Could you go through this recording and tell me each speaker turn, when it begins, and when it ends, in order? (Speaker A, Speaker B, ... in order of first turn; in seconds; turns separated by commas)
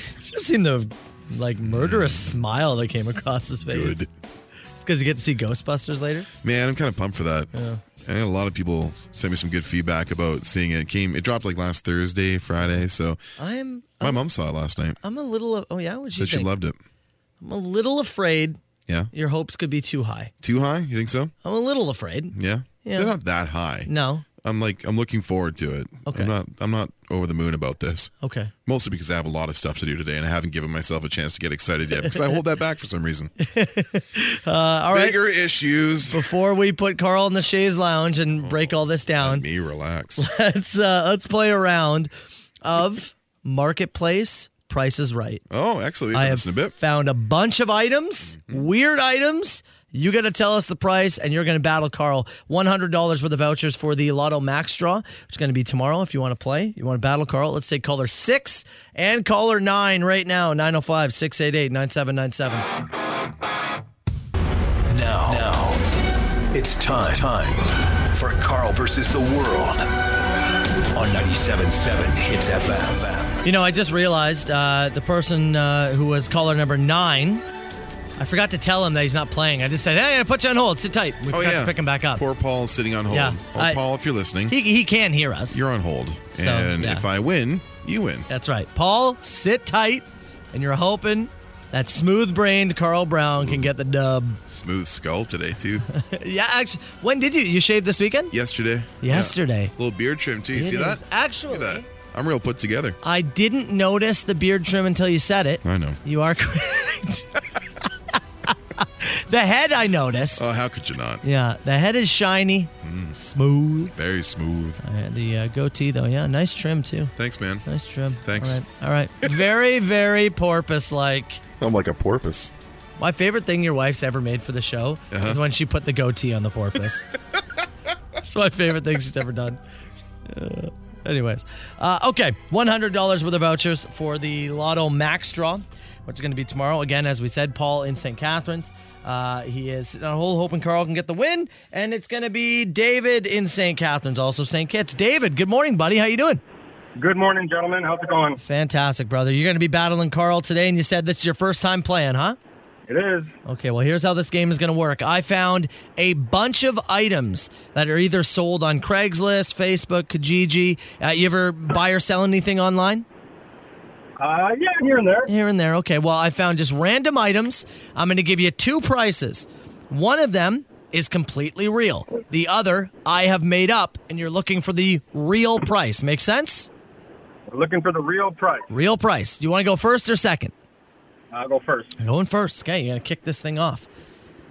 Speaker A: 0.2-4.1, Speaker B: 1.6-2.4, Speaker B: 3.6-4.1, Speaker A: 4.8-6.3, Speaker B: 6.4-7.5, Speaker A: 7.5-7.8, Speaker B: 8.0-13.2, Speaker A: 13.4-14.2, Speaker B: 14.0-15.0, Speaker A: 15.0-16.5, Speaker B: 16.1-16.8, Speaker A: 17.4-18.6, Speaker A: 19.1-20.3, Speaker B: 20.4-21.3, Speaker A: 21.4-23.2, Speaker B: 22.4-23.9, Speaker A: 23.9-24.2, Speaker B: 24.4-28.1, Speaker A: 26.1-26.3, Speaker A: 28.2-28.5, Speaker B: 28.7-33.3, Speaker A: 33.4-35.2, Speaker B: 34.9-36.2, Speaker A: 36.1-39.5, Speaker B: 38.4-40.2, Speaker A: 40.2-42.1, Speaker A: 42.6-45.4, Speaker B: 45.5-46.8, Speaker A: 46.1-62.6, Speaker C: 64.9-65.8, Speaker C: 66.5-69.9, Speaker C: 71.0-73.4, Speaker A: 73.4-77.4, Speaker A: 78.2-82.2, Speaker B: 81.3-84.6, Speaker A: 83.1-83.8, Speaker A: 84.5-85.6, Speaker B: 85.5-88.3, Speaker A: 86.3-87.1, Speaker A: 88.3-94.4, Speaker B: 93.4-93.7, Speaker B: 94.5-95.8, Speaker A: 95.9-98.3, Speaker B: 98.3-103.0, Speaker A: 99.0-99.7, Speaker A: 100.5-101.9, Speaker A: 103.0-107.4, Speaker B: 105.6-106.0, Speaker A: 108.5-110.4, Speaker B: 110.4-111.2, Speaker A: 111.2-113.9, Speaker B: 112.8-113.2, Speaker B: 113.9-114.8, Speaker A: 114.8-117.1, Speaker B: 117.2-117.7, Speaker A: 117.7-121.4, Speaker B: 118.2-118.6, Speaker B: 121.6-122.5, Speaker A: 123.0-127.1, Speaker B: 125.1-125.4, Speaker A: 128.2-129.6, Speaker A: 130.3-146.4, Speaker D: 147.0-148.4, Speaker A: 148.4-152.4, Speaker D: 152.9-153.3, Speaker A: 153.5-163.1, Speaker D: 164.2-165.3, Speaker A: 165.3-176.7, Speaker D: 177.5-178.7, Speaker A: 178.7-180.5, Speaker D: 181.3-182.0, Speaker A: 182.0-183.9